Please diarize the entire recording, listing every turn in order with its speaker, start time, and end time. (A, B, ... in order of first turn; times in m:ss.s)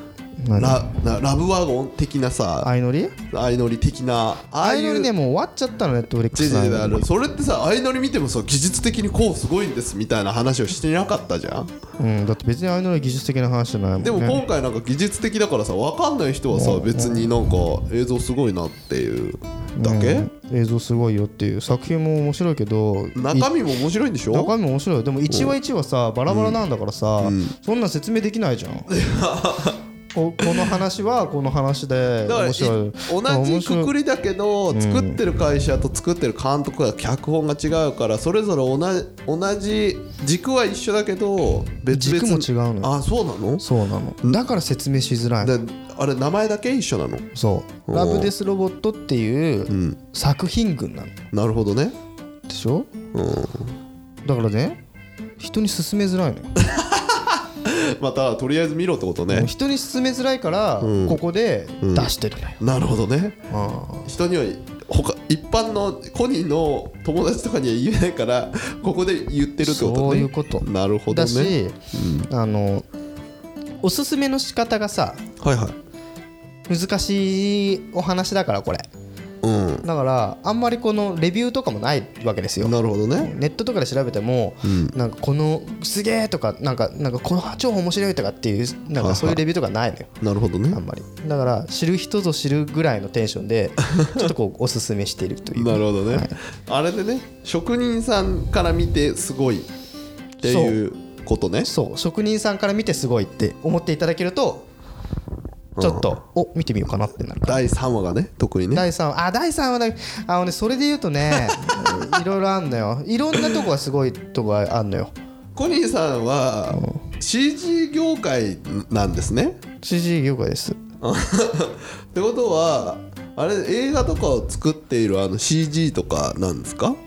0:00.4-0:00.9 A
0:00.5-0:02.7 B
0:02.6-0:03.1 A
0:03.3-0:05.1 B
0:04.6-0:07.0 A
0:06.3-0:11.7 B
0:12.0-0:14.4 A
0:14.0-0:20.3 B
0:16.5-0:17.3 A
0:19.8-0:23.5 A
0:23.1-0:24.5 B
0:24.3-0:28.9 A
0:25.3-0:25.6 B
0:26.3-0:26.6 B
0:27.2-0:27.5 B
0:28.9-0:29.8 B
0:30.1-0:33.9 A
0:30.4-0:30.8 B
0:32.2-0:43.6 B
0:34.7-0:35.2 A
0:41.9-0:42.9 A
0:43.6-0:45.5 A
0:45.4-0:47.3 B
0:47.3-0:51.1 A
0:47.9-0:48.3 B
0:49.7-0:50.0 B
0:51.3-0:51.9 B
0:52.5-0:52.9 A
0:53.1-0:53.7 B
0:54.2-0:54.8 A
0:55.4-0:56.5 A
0:56.6-0:59.5 B
0:59.3-1:02.6 A
1:00.8-1:01.2 B
1:01.8-1:03.4 B
1:03.5-1:04.1 A
1:04.0-1:12.3 B
1:09.6-1:11.8 A
1:12.3-1:12.8 A
1:13.8-1:15.2 A
1:15.4-1:15.8 B
1:16.7-1:18.8 A
1:19.4-1:19.8 B
1:19.8-1:30.1 A
1:22.6-1:23.3 B
1:24.6-1:24.9 B
1:29.0-1:29.4 B
1:30.2-1:30.8 B
1:30.7-1:36.4 A
1:33.9-1:34.3 B
1:35.5-1:39.7 B
1:40.4-1:41.7 B
1:40.4-1:40.8 A
1:41.6-1:44.7 A
1:45.8-1:46.1 B
1:45.8-1:47.6 A
1:47.4-1:48.9 B
1:48.7-1:55.1 A
1:51.5-1:52.0 B
1:55.6-1:59.6 B
1:56.7-1:57.0 A
1:59.8-2:00.8 A
2:01.0-2:07.0 B